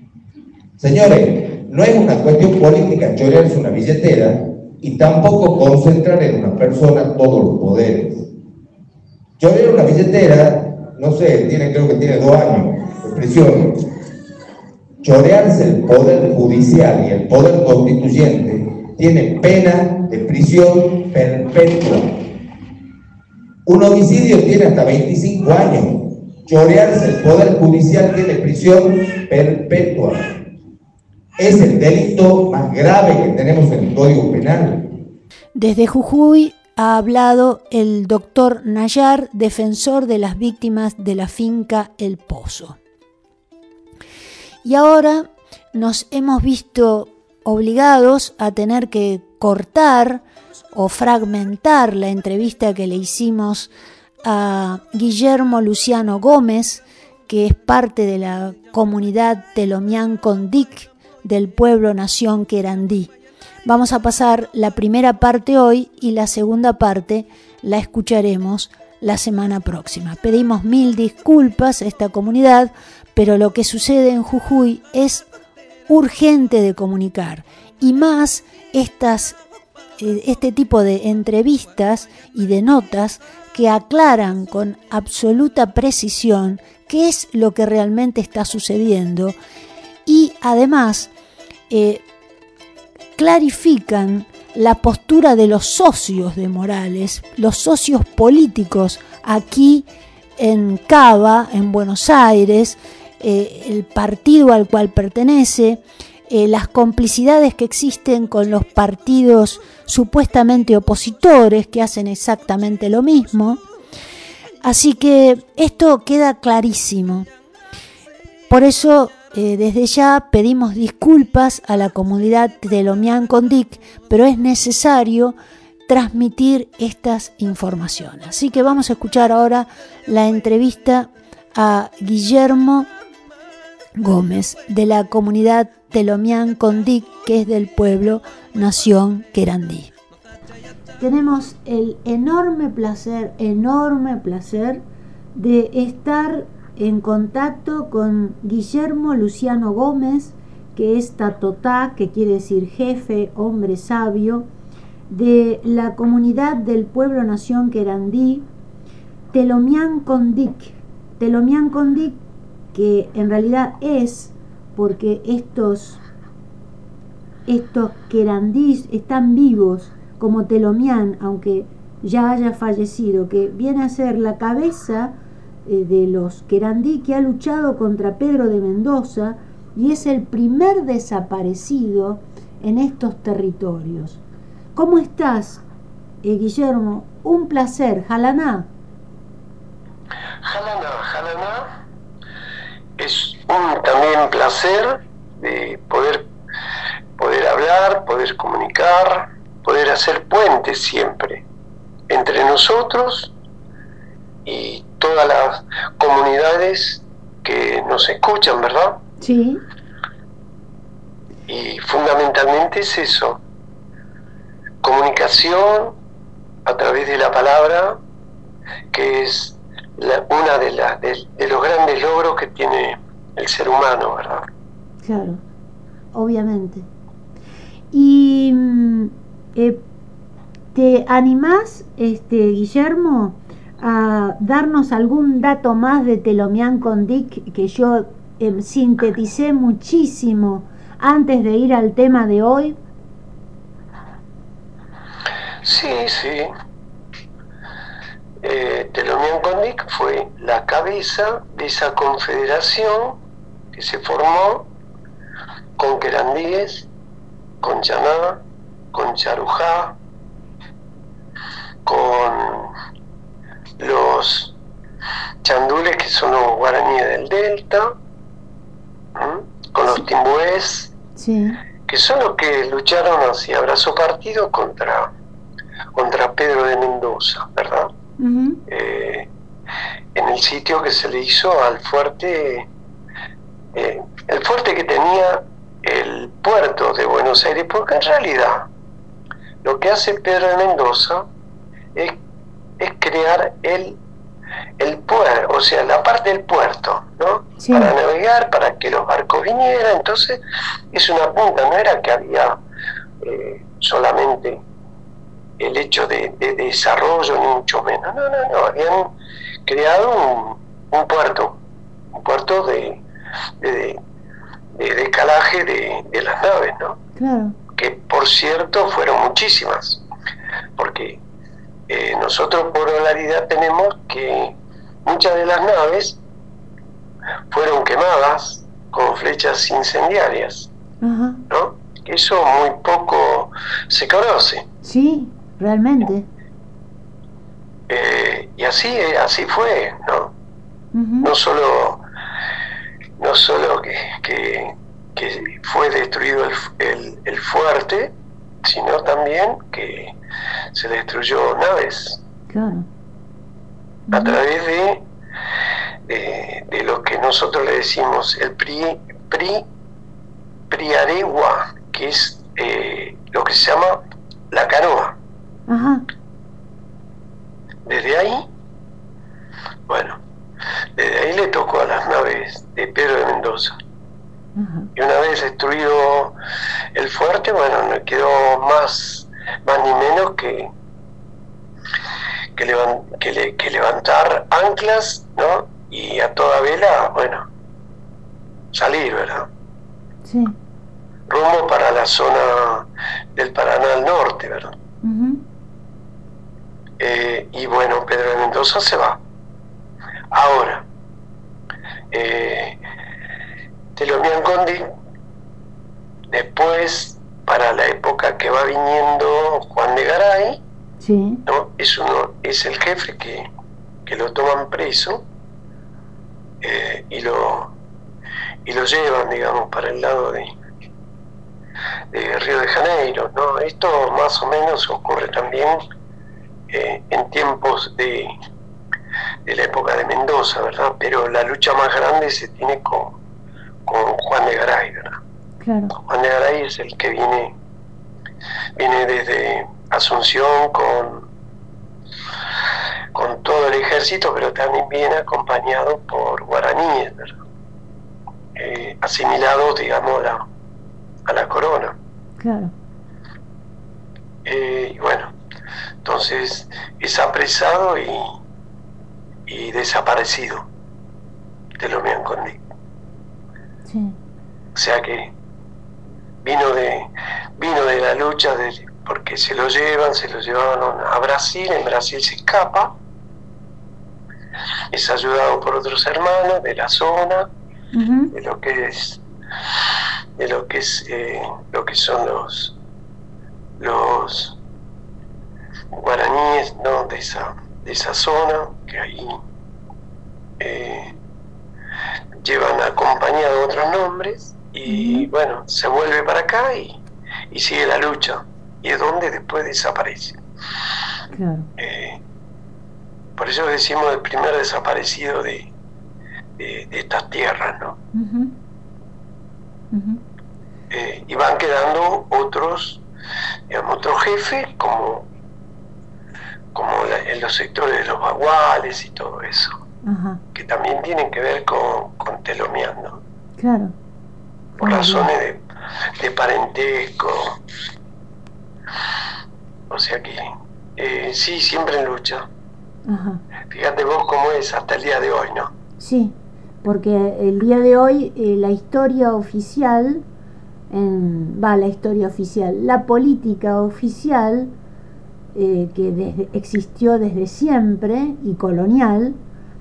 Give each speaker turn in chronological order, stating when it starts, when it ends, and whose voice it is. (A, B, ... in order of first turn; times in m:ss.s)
0:00.8-0:08.2 A
0:09.4-0:13.9 A
0:15.0-0:22.2 A
0:23.6-0:30.4 A
0:31.4-0:34.9 A
0:35.5-0:42.8 B
0:44.6-0:53.7 B
0:54.2-1:03.1 B
1:03.6-1:15.2 B
1:15.9-1:19.4 B
1:20.0-1:29.4 B
1:30.0-1:31.1 B
1:31.7-1:32.0 B
1:33.2-1:39.8 B
1:40.4-1:53.6 B
1:54.6-1:57.3 B
1:58.5-2:05.4 B
2:05.9-2:12.9 B
2:14.0-2:19.9 B
2:21.0-2:24.8 B
2:25.3-2:34.5 B
2:35.1-2:38.5 B
2:39.3-2:42.2 B
2:42.7-2:46.0 B
2:47.4-3:04.2 B
3:04.8-3:05.6 B
3:06.2-3:08.7 B
3:10.4-3:11.7 C
3:13.0-3:16.3 C
3:17.2-3:21.4 C
3:22.1-3:23.3 C
3:24.4-3:29.0 C
3:29.2-3:29.6 B
3:31.5-3:33.4 C
3:34.8-3:36.0 C
3:36.6-3:38.0 C
3:38.9-3:44.4 C
3:45.0-3:45.4 B
3:46.1-3:46.9 B
3:47.9-3:49.8 B
3:50.7-4:02.8 B
4:05.6-4:06.5 C
4:08.4-4:13.2 C
4:13.7-4:14.7 C
4:15.8-4:16.9 C
4:17.6-4:18.4 C
4:18.9-4:20.0 C
4:21.8-4:22.7 C
4:23.8-4:24.6 C
4:25.4-4:27.9 C
4:29.2-4:30.9 C
4:31.2-4:31.6 B
4:31.9-4:35.1 C
4:35.9-4:37.9 C
4:38.2-4:38.6 B
4:38.7-4:39.3 C
4:40.1-4:42.7 C
4:43.7-4:48.7 C
4:49.6-4:51.3 C
4:51.9-4:52.2 C
4:52.8-4:54.0 C
4:54.8-5:00.4 C
4:57.6-4:57.9 B
5:00.9-5:02.6 C
5:03.2-5:04.6 C
5:05.6-5:09.1 C
5:09.6-5:11.6 C
5:12.1-5:13.0 C
5:13.6-5:14.0 C
5:14.7-5:17.0 C
5:17.2-5:17.5 B
5:17.7-5:20.0 C
5:20.8-5:21.2 C
5:21.9-5:26.2 C
5:27.5-5:30.7 C
5:31.0-5:31.4 B
5:31.5-5:34.6 C
5:34.8-5:36.2 B
5:37.9-5:40.3 C
5:40.9-5:41.3 B
5:41.2-5:42.0 C
5:43.2-5:50.1 C
5:50.7-5:52.2 C
5:52.5-5:52.9 B
5:54.1-5:54.4 B
5:54.1-5:55.0 C
5:56.0-5:59.6 C
6:00.7-6:05.2 C
6:05.7-6:06.0 B
6:07.8-6:08.4 C
6:09.9-6:10.2 C
6:11.0-6:13.8 C
6:14.6-6:14.9 B
6:15.0-6:16.3 C
6:16.9-6:20.7 C
6:22.6-6:27.5 C
6:28.7-6:29.5 C
6:30.2-6:30.5 B
6:31.3-6:34.8 C
6:35.0-6:35.4 B
6:37.0-6:39.2 C
6:40.3-6:40.8 C
6:42.1-6:42.8 C
6:43.9-6:44.9 C
6:46.3-6:50.6 C
6:51.0-6:51.4 B
6:51.4-6:53.5 C
6:54.0-6:55.2 C
6:56.6-6:57.7 C
6:58.6-7:00.5 C
7:02.1-7:05.8 C
7:06.7-7:08.3 C
7:09.4-7:13.2 C
7:13.8-7:15.2 C
7:15.6-7:15.9 B
7:16.0-7:17.5 C
7:18.8-7:21.3 C
7:23.1-7:27.4 C
7:28.6-7:30.4 C
7:31.2-7:32.0 C
7:32.4-7:32.7 B
7:34.4-7:35.3 C
7:36.0-7:38.3 C
7:39.5-7:40.7 C
7:41.8-7:42.6 C
7:43.8-7:44.2 B
7:44.7-7:45.3 C
7:46.4-7:53.0 C
7:54.9-7:57.5 C
7:57.9-7:58.3 B
7:58.3-7:59.2 C
8:00.4-8:02.7 C
8:03.8-8:04.6 C
8:05.9-8:09.4 C
8:10.6-8:11.1 C
8:12.4-8:17.0 C
8:14.9-8:15.3 B
8:17.5-8:20.4 C
8:21.3-8:21.7 B
8:21.8-8:22.2 C
8:23.4-8:25.7 C
8:26.6-8:28.0 C
8:28.1-8:28.5 B
8:29.9-8:30.2 B
8:30.9-8:33.0 C
8:33.7-8:35.3 C
8:36.7-8:39.8 C
8:40.0-8:40.4 B
8:40.5-8:43.2 C
8:43.6-8:43.9 B
8:44.8-8:45.3 B
8:44.8-8:45.6 C
8:46.2-8:47.6 C
8:49.9-8:52.5 C
8:53.1-8:53.4 B
8:53.7-8:55.7 C
8:56.0-9:00.2 B
9:00.9-9:04.7 B
9:05.5-9:09.4 B